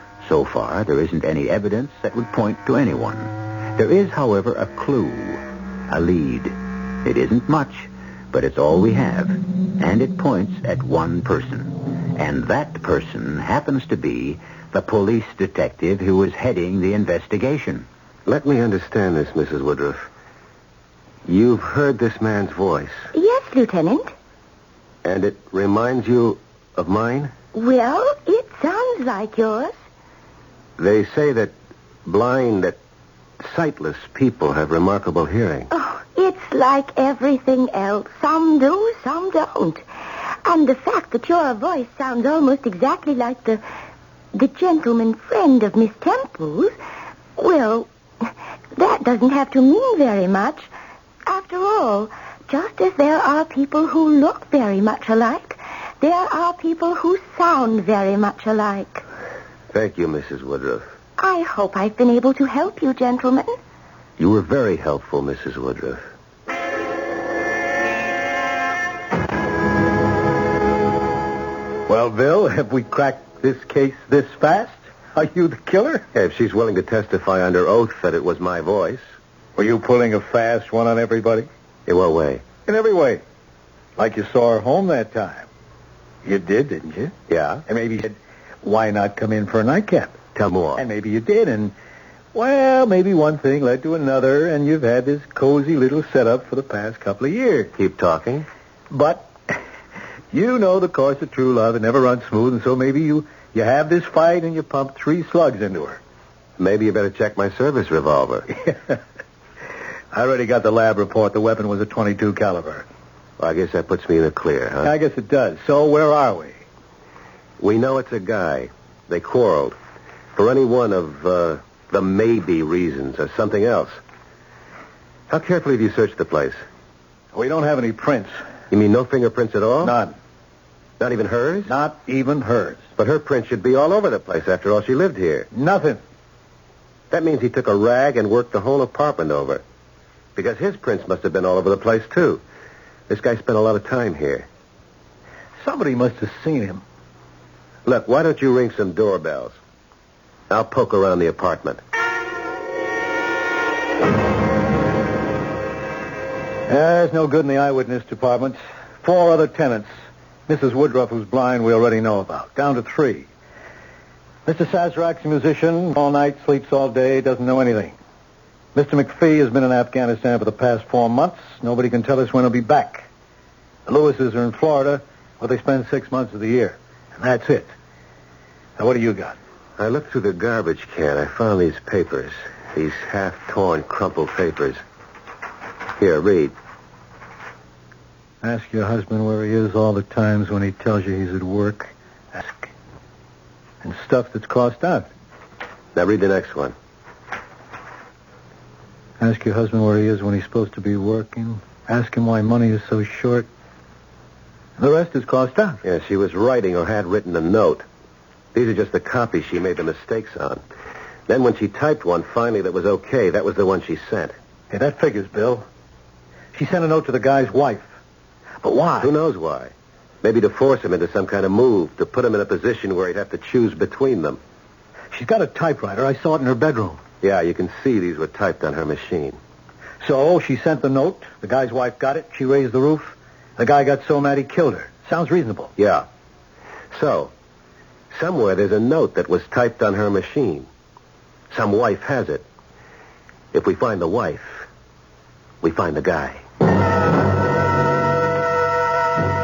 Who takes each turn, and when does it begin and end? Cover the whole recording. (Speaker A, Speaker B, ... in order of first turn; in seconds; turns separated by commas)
Speaker A: 0.2-17.9, Speaker B: 18.2-20.1, Speaker B: 21.2-23.1, Speaker C: 23.1-24.1, Speaker B: 25.0-27.3, Speaker C: 27.5-29.7, Speaker B: 30.8-31.5, Speaker B: 32.0-32.8, Speaker B: 33.4-35.7, Speaker C: 35.7-39.8, Speaker C: 40.4-43.6, Speaker C: 44.3-46.7, Speaker C: 47.4-50.7, Speaker C: 51.2-59.0, Speaker B: 59.7-60.9, Speaker C: 61.2-63.5, Speaker B: 64.2-66.0, Speaker D: 71.9-76.0, Speaker B: 76.1-79.0, Speaker D: 79.6-81.5, Speaker B: 81.8-82.5, Speaker D: 82.6-83.2, Speaker D: 84.0-85.5, Speaker D: 86.2-87.1, Speaker B: 87.3-87.6, Speaker D: 87.7-90.2, Speaker B: 90.3-90.8, Speaker D: 90.8-91.7, Speaker D: 92.3-97.7, Speaker B: 97.8-98.5, Speaker D: 98.9-99.6, Speaker D: 100.3-106.0, Speaker B: 106.6-108.5, Speaker D: 110.1-112.8, Speaker B: 113.4-114.9, Speaker D: 114.8-116.6, Speaker B: 117.6-119.8, Speaker B: 120.3-124.0, Speaker B: 125.3-126.6, Speaker D: 127.3-128.3, Speaker B: 128.7-130.0, Speaker D: 129.8-130.1, Speaker B: 131.0-131.7, Speaker D: 131.7-132.8, Speaker B: 133.0-135.5, Speaker D: 135.5-136.0, Speaker B: 137.1-139.6, Speaker B: 140.3-142.4, Speaker B: 143.1-144.5, Speaker D: 145.6-146.8, Speaker B: 147.8-149.6, Speaker B: 150.5-151.8, Speaker D: 156.7-159.9, Speaker D: 160.5-163.3, Speaker D: 164.4-167.9, Speaker D: 168.7-173.1, Speaker D: 173.9-177.7, Speaker D: 178.8-179.3, Speaker B: 179.8-184.8, Speaker B: 186.0-186.5, Speaker D: 188.4-192.7, Speaker D: 193.8-195.1, Speaker B: 195.9-196.7, Speaker D: 199.2-203.5, Speaker D: 204.8-205.8, Speaker B: 205.8-207.8, Speaker B: 208.5-210.6, Speaker B: 211.3-214.3, Speaker D: 214.7-215.7, Speaker D: 216.5-217.9, Speaker D: 218.6-219.1, Speaker B: 219.0-224.4, Speaker D: 225.1-227.0, Speaker B: 227.2-229.4, Speaker D: 230.0-235.7, Speaker B: 235.8-236.1, Speaker B: 236.9-237.3, Speaker B: 238.1-240.7, Speaker B: 241.5-242.4, Speaker B: 243.5-244.7, Speaker B: 245.6-246.4